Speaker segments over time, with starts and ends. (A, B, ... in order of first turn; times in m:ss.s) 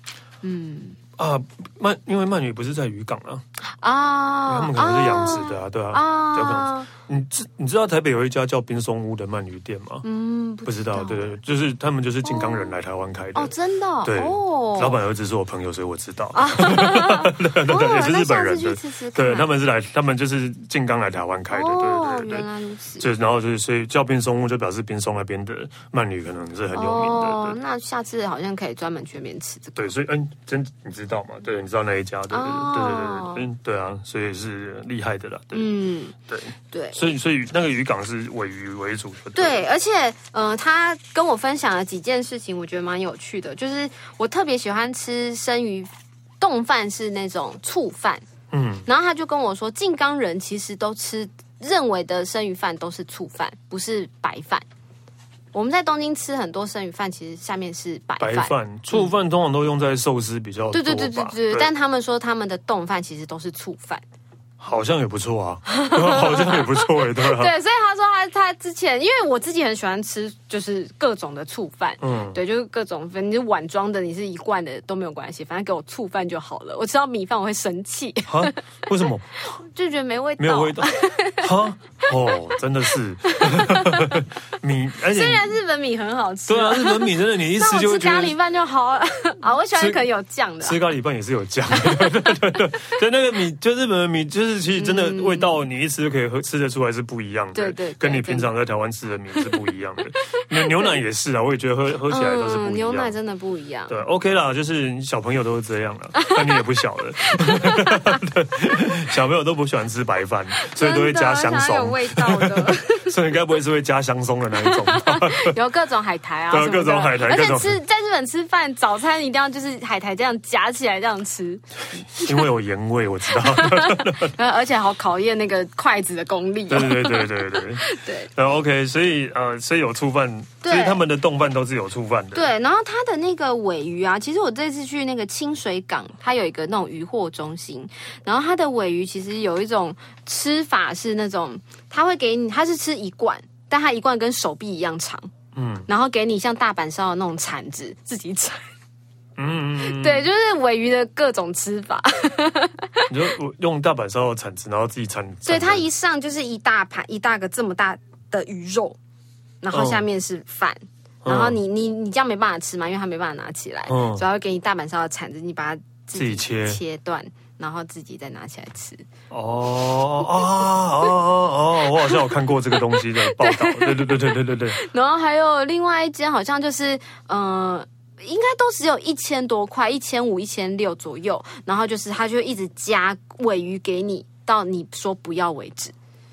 0:00.4-0:01.0 A
0:01.2-0:03.4 B
0:03.7-0:06.9 A
0:04.5-0:10.0 B
0:10.0-0:11.4 A
0:10.7-0:13.5 B
0:12.2-0:12.7 A
0:13.4-0:15.0 A
0:14.0-0:22.5 B
0:16.3-0:19.5 A
0:21.5-0:23.1 A
0:23.0-0:27.6 B
0:26.7-0:29.9 A
0:29.8-0:35.7 B
0:32.3-0:33.5 A
0:35.5-0:36.2 A
0:36.3-0:39.6 B
0:36.7-0:37.0 A
0:39.4-0:48.2 A
0:48.5-0:48.9 B
0:48.9-0:54.6 A
0:55.5-0:59.1 A
0:58.2-1:01.7 B
1:00.7-1:04.0 A
1:04.6-1:07.5 B
1:05.7-1:18.6 A
1:12.0-1:12.4 B
1:18.3-1:19.3 B
1:19.4-1:21.5 A
1:20.4-1:25.5 B
1:23.3-1:24.3 A
1:25.1-1:30.8 A
1:26.5-1:28.4 B
1:29.8-1:30.0 B
1:30.6-1:43.1 B
1:34.8-1:35.5 A
1:37.6-1:38.5 A
1:40.6-1:40.9 A
1:42.1-1:43.9 A
1:43.9-1:55.6 B
1:46.2-1:46.6 A
1:47.2-1:48.2 A
1:50.6-1:53.2 A
1:54.6-2:02.4 A
1:56.5-1:57.8 B
2:02.2-2:04.3 B
2:03.3-2:08.3 A
2:06.7-2:12.5 B
2:10.6-2:11.0 A
2:12.3-2:25.3 A
2:25.6-2:25.9 B
2:25.9-2:28.6 A
2:29.4-2:30.3 B
2:29.8-2:33.1 A
2:33.1-2:35.8 B
2:35.4-2:39.0 A
2:39.6-2:49.0 A
2:39.7-2:40.0 B
2:41.2-2:41.6 B
2:43.9-2:44.2 B
2:46.2-2:46.8 B
2:49.3-2:54.8 B
2:51.9-3:05.9 A